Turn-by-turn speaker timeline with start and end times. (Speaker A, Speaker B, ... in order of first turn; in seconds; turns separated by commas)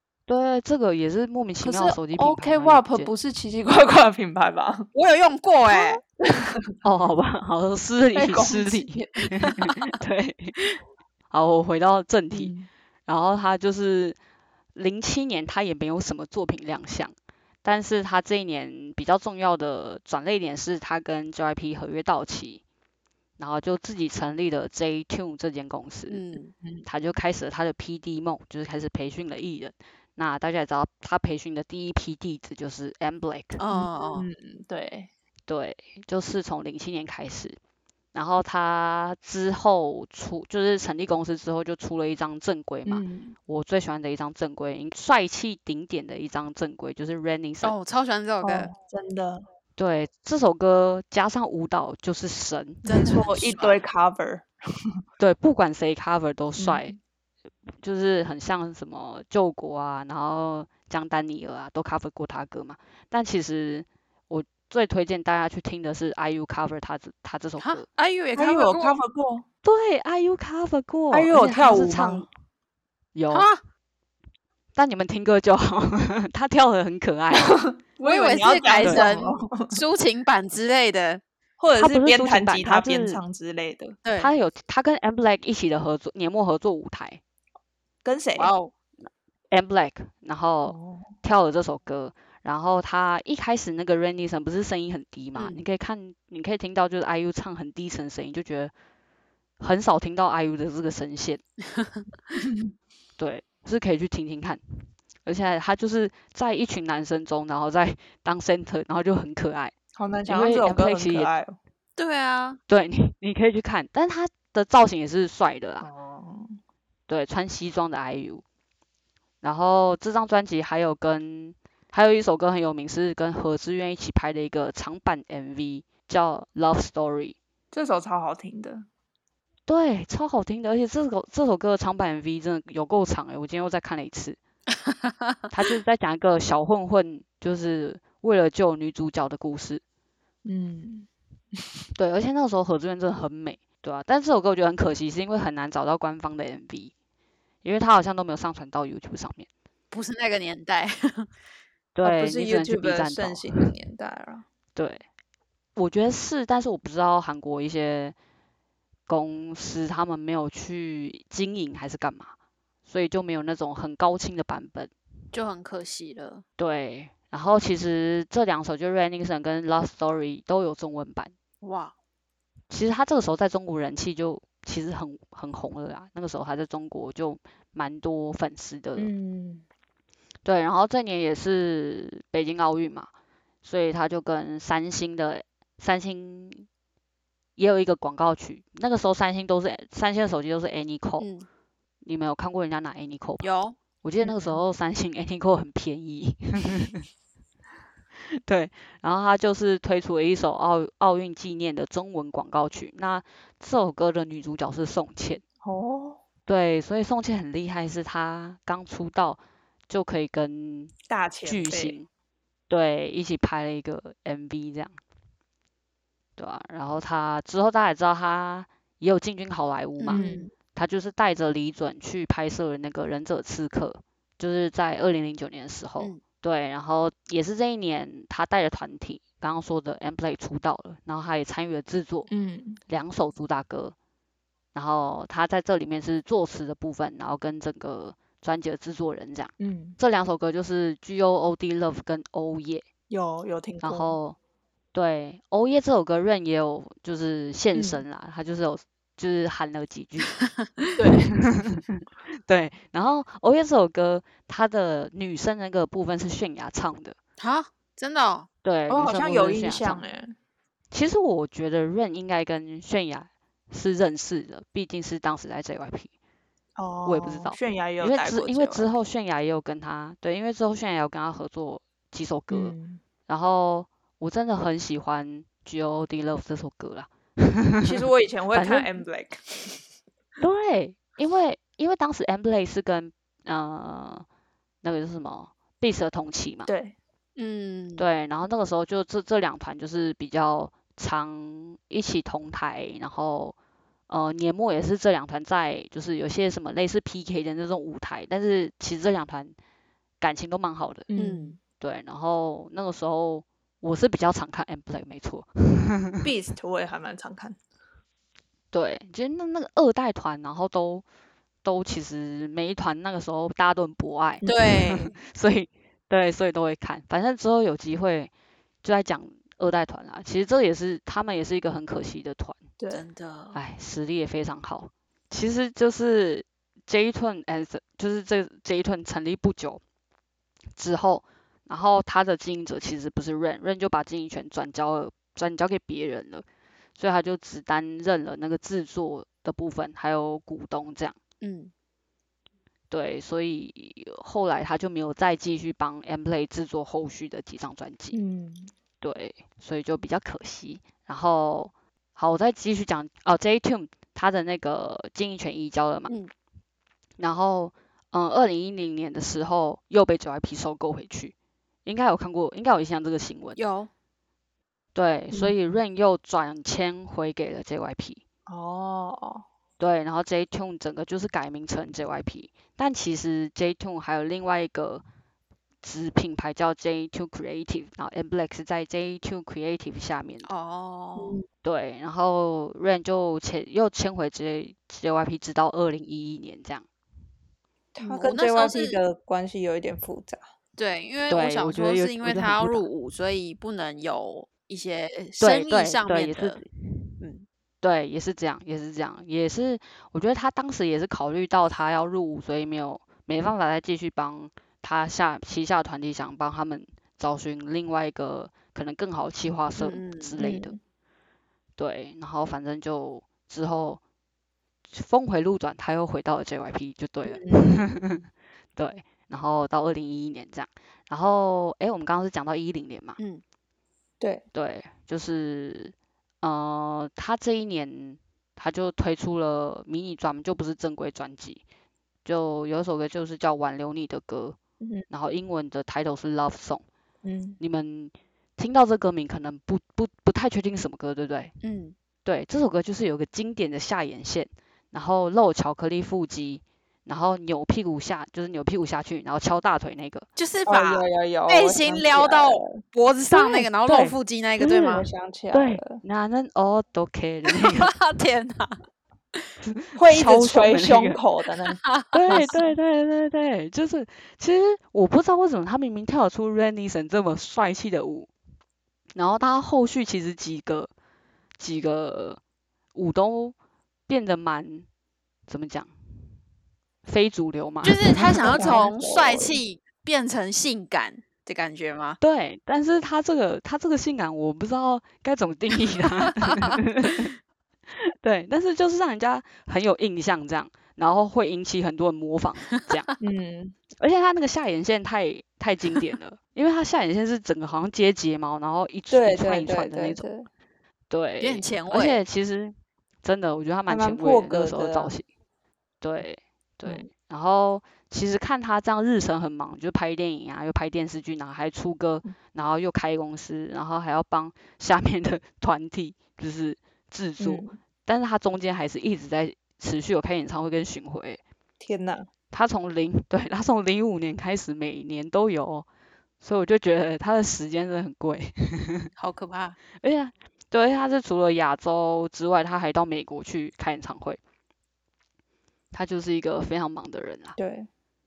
Speaker A: 0.3-3.1, Speaker B: 1.6-4.9, Speaker C: 4.9-6.0, Speaker B: 5.7-6.7, Speaker A: 6.8-10.8, Speaker B: 8.1-9.6, Speaker A: 11.3-12.5, Speaker B: 12.3-12.7, Speaker A: 13.1-14.2, Speaker A: 14.7-22.6, Speaker A: 23.4-26.2, Speaker C: 26.1-26.5, Speaker A: 26.9-33.6, Speaker C: 33.6-34.3, Speaker B: 33.7-35.1, Speaker A: 35.5-37.6, Speaker A: 38.1-47.7, Speaker B: 42.9-43.4, Speaker C: 47.6-48.7, Speaker B: 48.4-49.4, Speaker A: 49.8-53.0, Speaker C: 52.9-53.8, Speaker B: 52.9-54.5, Speaker A: 55.2-57.0, Speaker B: 56.6-56.9, Speaker A: 57.8-67.9, Speaker C: 67.6-69.0, Speaker B: 68.3-69.4, Speaker A: 69.6-72.3, Speaker B: 71.1-72.3, Speaker A: 73.1-73.5, Speaker C: 73.3-73.6, Speaker A: 74.7-77.6, Speaker B: 77.4-79.8, Speaker C: 78.0-81.2, Speaker A: 78.8-79.1, Speaker B: 81.6-84.0, Speaker A: 81.7-83.2, Speaker C: 84.0-84.3, Speaker A: 84.2-87.2, Speaker B: 88.0-88.5, Speaker C: 88.4-88.7, Speaker A: 89.5-98.7, Speaker B: 90.7-91.1, Speaker A: 99.6-101.4, Speaker B: 102.4-102.7, Speaker A: 103.2-109.7, Speaker B: 109.9-111.6, Speaker A: 110.2-111.3, Speaker C: 112.0-112.6, Speaker A: 112.7-115.9, Speaker B: 115.8-116.6, Speaker A: 117.1-118.4, Speaker A: 119.4-127.4, Speaker B: 127.7-128.9, Speaker A: 129.7-134.4, Speaker A: 135.5-139.8, Speaker B: 140.4-141.1, Speaker A: 141.9-146.9, Speaker A: 147.6-149.5, Speaker C: 149.9-151.3, Speaker A: 151.9-153.5, Speaker B: 152.0-154.4, Speaker A: 154.7-155.0, Speaker A: 155.8-158.1, Speaker A: 159.1-162.3, Speaker A: 162.9-164.9, Speaker C: 165.3-166.4, Speaker A: 166.6-171.3, Speaker C: 171.6-171.9, Speaker A: 172.7-179.1, Speaker B: 179.0-179.6, Speaker A: 180.4-183.1, Speaker A: 183.6-186.7, Speaker A: 187.6-191.3, Speaker C: 191.2-191.5, Speaker A: 192.0-193.5, Speaker C: 193.4-193.8, Speaker A: 194.0-197.1, Speaker A: 198.4-205.4, Speaker B: 205.6-206.2, Speaker A: 206.5-212.1, Speaker B: 211.1-212.0, Speaker A: 212.7-214.9, Speaker A: 216.4-232.3, Speaker C: 220.0-220.5, Speaker B: 220.1-220.5, Speaker B: 232.3-232.8, Speaker A: 232.9-233.9, Speaker A: 234.7-242.8, Speaker B: 239.6-240.0, Speaker B: 243.1-244.2, Speaker A: 243.8-244.4, Speaker A: 244.9-250.3, Speaker B: 247.7-248.1, Speaker C: 250.4-251.1, Speaker B: 251.0-251.3, Speaker A: 251.3-257.2, Speaker C: 257.4-258.5, Speaker A: 258.6-260.0, Speaker B: 258.9-260.4, Speaker A: 260.9-266.1, Speaker B: 266.8-268.9, Speaker A: 267.1-272.8, Speaker B: 272.5-273.0, Speaker A: 273.3-279.0, Speaker B: 277.8-279.8, Speaker A: 280.4-284.2, Speaker A: 284.8-286.7, Speaker B: 286.7-286.9, Speaker C: 287.4-288.1, Speaker A: 288.0-293.6, Speaker A: 294.1-299.6, Speaker A: 300.2-301.1, Speaker B: 301.1-301.6, Speaker C: 301.1-301.6, Speaker A: 301.8-306.2, Speaker B: 306.2-307.6, Speaker A: 308.7-311.0, Speaker A: 311.6-318.3, Speaker B: 314.4-314.8, Speaker C: 314.4-315.1, Speaker A: 318.8-322.6, Speaker B: 322.8-323.1, Speaker C: 322.9-323.6, Speaker A: 323.5-329.8, Speaker A: 330.8-336.4, Speaker A: 337.0-341.2, Speaker C: 341.4-341.7, Speaker A: 342.9-348.2, Speaker B: 348.1-348.7, Speaker A: 349.0-356.1, Speaker A: 357.2-361.3, Speaker A: 361.9-363.6, Speaker C: 363.6-363.9, Speaker A: 364.9-368.2, Speaker B: 368.5-369.4, Speaker A: 369.8-375.0, Speaker A: 375.8-380.5, Speaker C: 380.4-381.4, Speaker B: 381.1-381.4, Speaker A: 381.6-386.9, Speaker B: 387.9-390.4, Speaker C: 388.0-389.0, Speaker C: 390.8-396.6, Speaker A: 391.3-392.9, Speaker A: 395.4-397.0, Speaker C: 397.2-397.4, Speaker A: 397.8-410.8, Speaker C: 409.8-410.5, Speaker B: 410.4-410.8, Speaker A: 411.8-414.0, Speaker A: 414.9-423.2, Speaker C: 417.3-417.6, Speaker B: 417.5-417.8, Speaker A: 424.5-431.6, Speaker A: 432.2-434.6, Speaker B: 434.8-435.1, Speaker A: 435.1-436.8, Speaker B: 437.2-437.6, Speaker A: 437.6-441.5, Speaker C: 441.6-441.9, Speaker A: 442.2-450.3, Speaker C: 450.4-455.1, Speaker B: 450.6-452.8, Speaker A: 453.3-454.9, Speaker B: 454.8-456.0, Speaker A: 455.5-457.9, Speaker C: 457.6-458.8, Speaker A: 459.6-461.2, Speaker B: 459.9-462.6, Speaker C: 461.7-462.6, Speaker A: 462.1-468.3, Speaker A: 469.1-470.9, Speaker A: 471.6-472.4, Speaker A: 472.9-473.6, Speaker A: 474.1-474.9, Speaker A: 475.5-475.9, Speaker A: 477.1-478.8, Speaker C: 477.8-482.2, Speaker B: 478.4-479.6, Speaker A: 482.2-487.3, Speaker A: 488.2-493.1, Speaker B: 493.2-493.8, Speaker A: 494.0-500.2, Speaker B: 499.1-500.5, Speaker A: 501.1-505.2, Speaker C: 501.4-502.2, Speaker B: 503.9-505.1, Speaker A: 506.0-521.4, Speaker B: 517.4-517.8, Speaker B: 521.8-522.3, Speaker A: 522.5-525.9, Speaker A: 526.4-529.1, Speaker C: 529.2-529.8, Speaker A: 530.0-534.4, Speaker A: 535.9-537.6, Speaker B: 537.6-537.9